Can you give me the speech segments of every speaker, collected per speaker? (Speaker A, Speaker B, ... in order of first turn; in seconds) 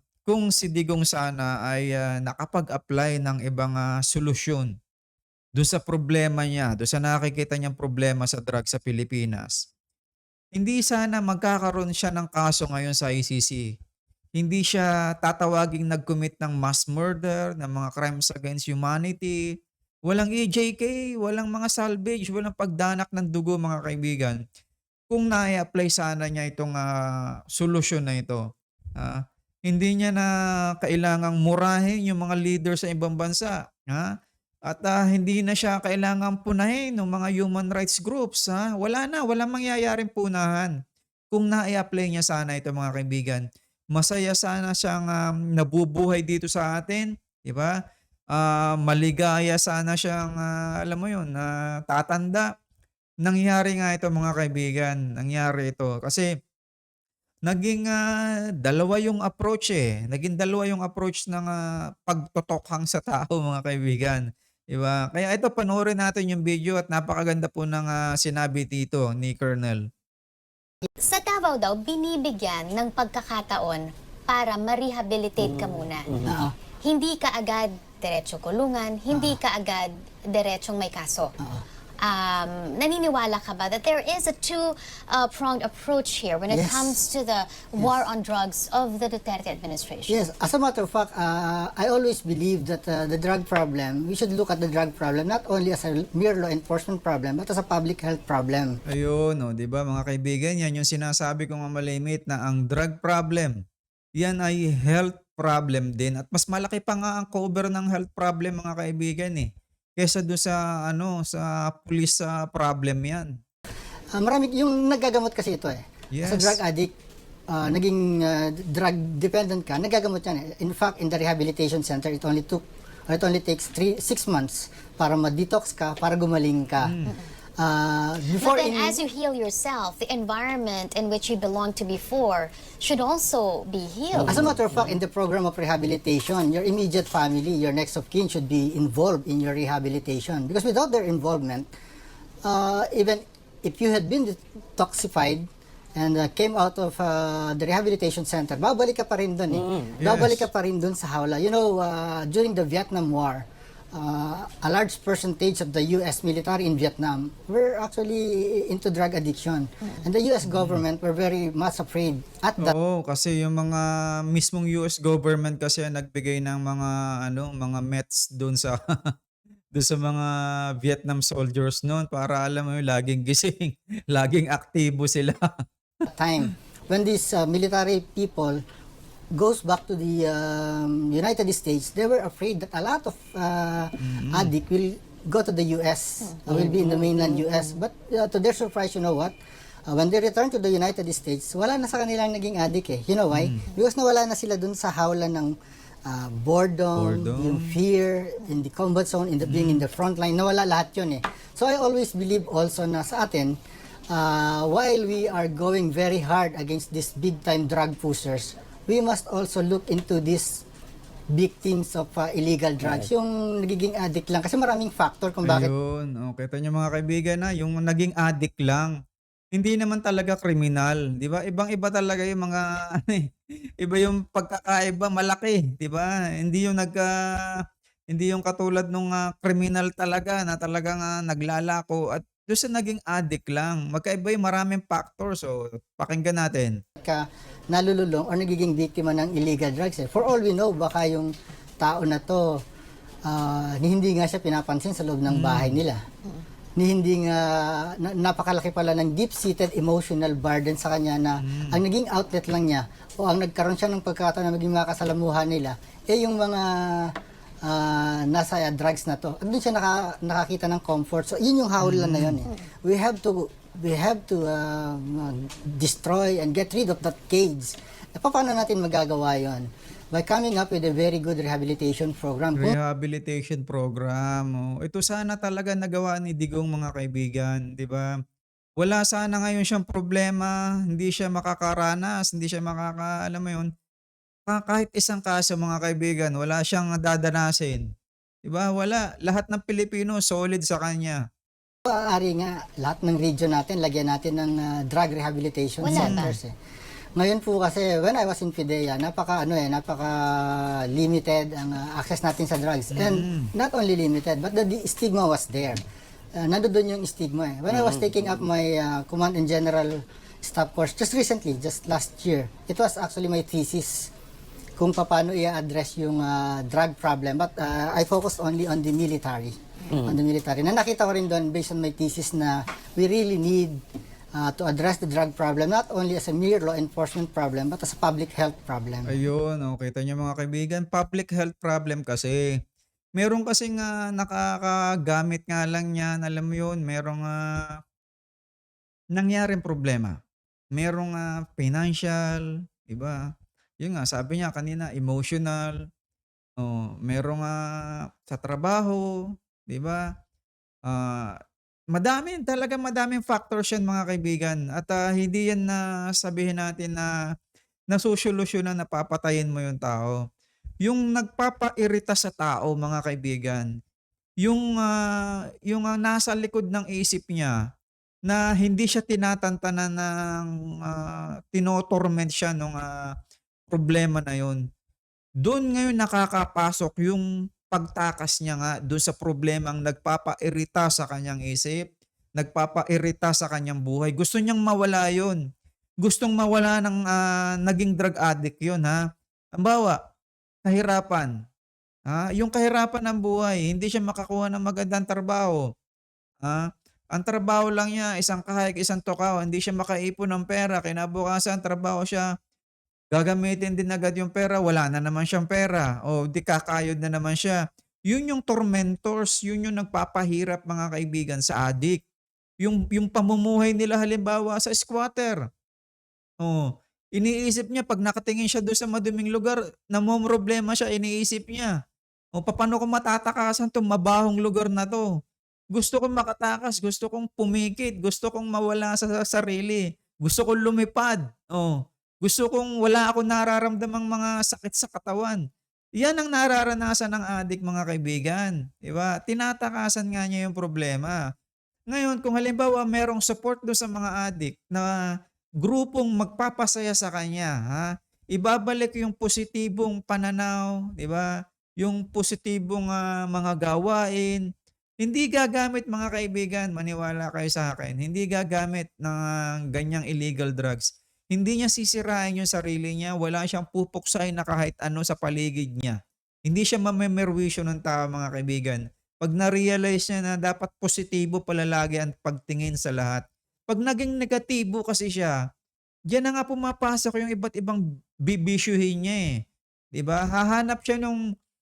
Speaker A: 0.2-4.7, 5.6-9.6, 10.6-13.6, 14.4-19.4, 20.1-24.4, 25.1-26.9, 27.6-28.4, 29.0-30.3, 30.8-34.1, 34.7-40.7, 41.3-47.7, 48.3-52.5, 53.2-56.3, 57.5-58.0, 58.6-61.5, 62.1-69.8, 98.9-103.5, 104.2-113.3, 116.1-116.6, 126.8-127.2, 150.0-150.5, 160.4-160.8, 162.6-168.8, 169.7-175.5, 184.0-184.5, 193.3-193.6, 197.0-197.8, 199.4-199.8, 215.5-218.9, 219.5-223.3, 223.8-227.1, 228.1-236.8, 245.3-245.8, 251.4-251.8, 261.8-262.4, 272.6-278.1, 278.8-283.7, 284.5-287.9, 288.5-291.2, 295.9-296.3, 302.9-303.5, 329.1-332.5, 333.2-337.7, 339.2-340.2, 340.8-343.2, 343.8-345.8, 346.6-347.6, 348.3-349.1, 349.7-350.1, 350.9-351.3, 351.9-357.1, 357.9-360.2, 360.8-363.7, 364.4-365.0, 365.7-367.6, 368.3-372.9, 373.7-374.6, 375.4-381.8, 382.4-385.4, 386.0-389.0, 389.6-390.0, 390.7-391.3, 392.1-395.6, 397.1-402.3, 403.1-407.6, 408.1-412.0, 412.6-415.4, 417.2-421.7, 422.4-425.1, 425.7-435.4, 436.0-441.2, 441.9-444.9, 445.6-451.3, 451.8-454.4, 455.0-475.4, 476.1-479.2, 479.9-481.2
Speaker B: 71.0-81.3, 82.0-90.2, 128.3-134.4, 295.8-296.3
Speaker C: 76.2-76.5, 79.1-79.4, 86.5-87.0, 87.8-88.0, 90.1-98.8, 114.2-116.9, 117.5-127.0, 127.6-129.0, 134.2-141.7, 142.4-162.8, 176.1-178.6, 179.3-189.3, 189.9-203.6, 204.1-210.6, 211.3-215.7, 237.0-242.6, 243.3-246.0, 246.8-272.8, 291.9-296.5, 297.2-305.8, 306.4-314.1, 314.8-323.8, 324.4-329.1